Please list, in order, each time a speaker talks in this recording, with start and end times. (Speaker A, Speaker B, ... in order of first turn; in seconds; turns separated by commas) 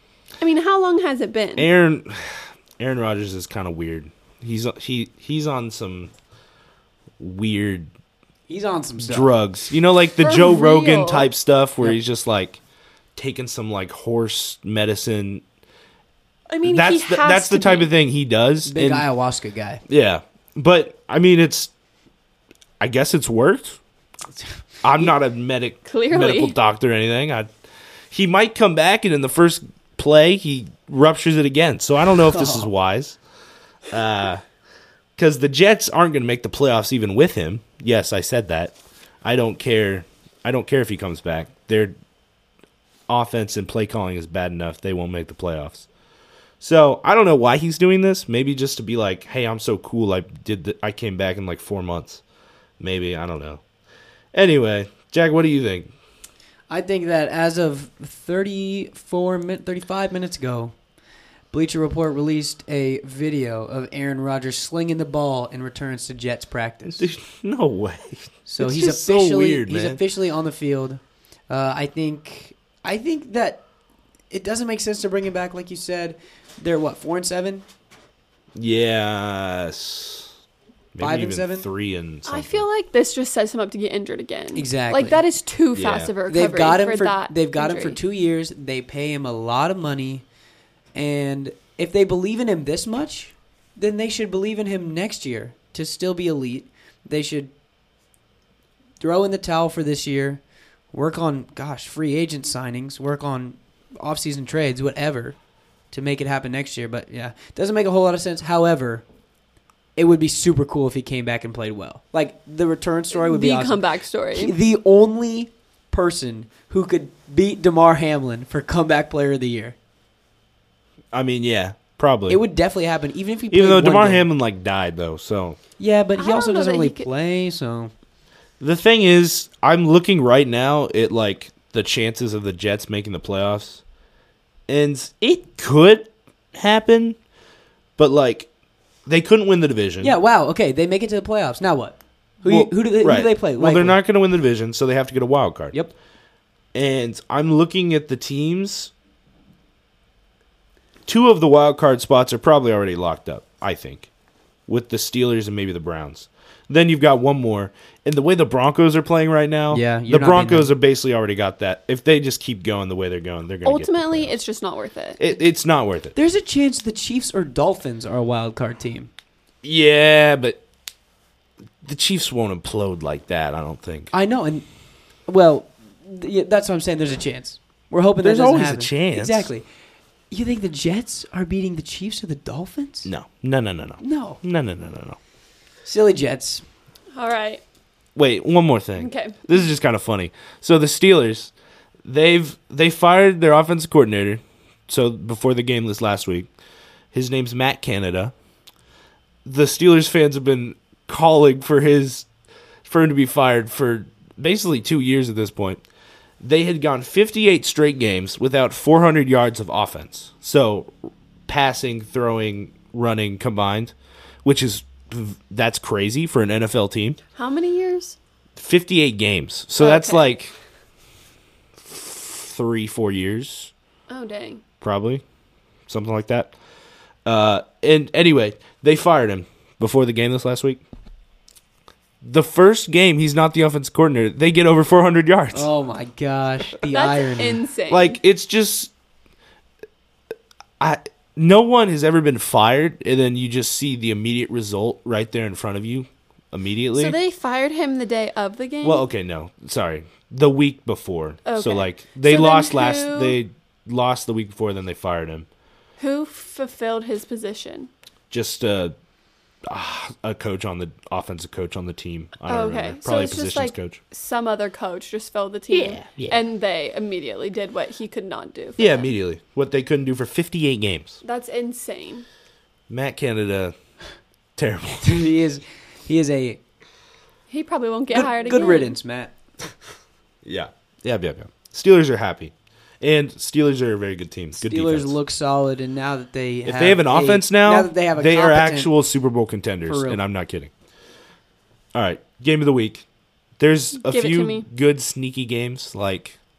Speaker A: 0.4-1.7, Speaker B: 1.6-6.1, Speaker B: 7.2-7.9, Speaker C: 8.5-9.3, Speaker B: 9.0-12.6, Speaker A: 10.2-11.3, Speaker B: 13.2-15.4, Speaker A: 16.5-17.9, Speaker B: 16.6-19.1, Speaker C: 18.6-19.8, Speaker B: 19.9-21.7, Speaker B: 22.8-23.8, Speaker B: 24.8-27.5, Speaker A: 25.9-26.6, Speaker B: 28.1-33.2, Speaker C: 32.3-32.7, Speaker B: 33.9-34.4, Speaker B: 35.2-41.9, Speaker B: 43.1-45.9, Speaker B: 46.6-52.2, Speaker B: 52.8-53.6, Speaker B: 54.3-55.9, Speaker C: 56.7-60.7, Speaker C: 61.5-67.1, Speaker B: 66.9-70.0, Speaker C: 68.5-73.6, Speaker C: 74.3-77.6, Speaker B: 78.5-80.3, Speaker B: 80.9-82.7, Speaker C: 81.0-81.7, Speaker A: 82.2-88.0, Speaker C: 84.5-85.2, Speaker B: 85.7-86.1, Speaker C: 86.3-90.2, Speaker C: 90.9-97.5, Speaker C: 99.0-105.4, Speaker C: 105.9-109.0, Speaker C: 110.0-113.8, Speaker A: 113.1-114.5, Speaker C: 114.3-119.8, Speaker B: 121.1-122.4, Speaker C: 122.3-124.2, Speaker B: 123.5-125.6, Speaker C: 125.8-127.9, Speaker A: 126.2-127.1, Speaker B: 128.6-133.8, Speaker B: 134.7-137.2, Speaker B: 138.0-138.5, Speaker B: 139.1-140.1, Speaker C: 140.0-144.0, Speaker B: 142.4-145.7, Speaker B: 146.7-148.9, Speaker B: 151.1-154.1, Speaker B: 154.7-164.3, Speaker C: 159.7-160.7, Speaker A: 163.6-165.2, Speaker B: 165.2-166.1, Speaker C: 166.1-169.1, Speaker B: 169.6-170.6, Speaker B: 171.8-174.1, Speaker C: 174.1-174.7, Speaker C: 175.3-179.6, Speaker B: 178.2-179.5, Speaker C: 180.3-183.1, Speaker B: 183.0-185.2, Speaker C: 184.0-184.4, Speaker C: 185.8-186.6, Speaker A: 187.1-187.6, Speaker B: 188.2-191.5, Speaker A: 189.0-189.5, Speaker B: 192.0-196.5, Speaker B: 197.1-198.3, Speaker B: 199.4-202.3, Speaker B: 202.8-205.8, Speaker B: 206.4-210.9, Speaker B: 211.5-217.2, Speaker A: 217.3-218.2, Speaker B: 218.6-220.5, Speaker A: 219.8-220.3, Speaker B: 221.8-223.7, Speaker A: 224.1-224.6, Speaker B: 224.8-225.2, Speaker B: 225.9-226.5, Speaker B: 227.2-230.8, Speaker B: 232.2-235.7, Speaker C: 235.5-237.6, Speaker A: 236.9-238.2, Speaker B: 237.9-238.9, Speaker B: 240.8-247.2, Speaker A: 246.9-249.1, Speaker B: 248.8-255.5, Speaker A: 251.4-253.4, Speaker A: 256.0-257.9, Speaker B: 258.3-258.9, Speaker B: 259.7-264.0, Speaker A: 262.5-269.1, Speaker B: 265.8-266.2, Speaker B: 268.8-271.2, Speaker A: 271.2-272.2, Speaker B: 272.9-273.7, Speaker B: 274.6-275.2, Speaker C: 275.0-276.6, Speaker A: 277.5-278.9, Speaker C: 278.1-279.3, Speaker B: 280.4-285.1, Speaker C: 284.6-288.9, Speaker B: 286.6-290.7, Speaker C: 289.9-290.2, Speaker B: 291.9-293.1, Speaker B: 293.6-296.4, Speaker A: 294.0-294.6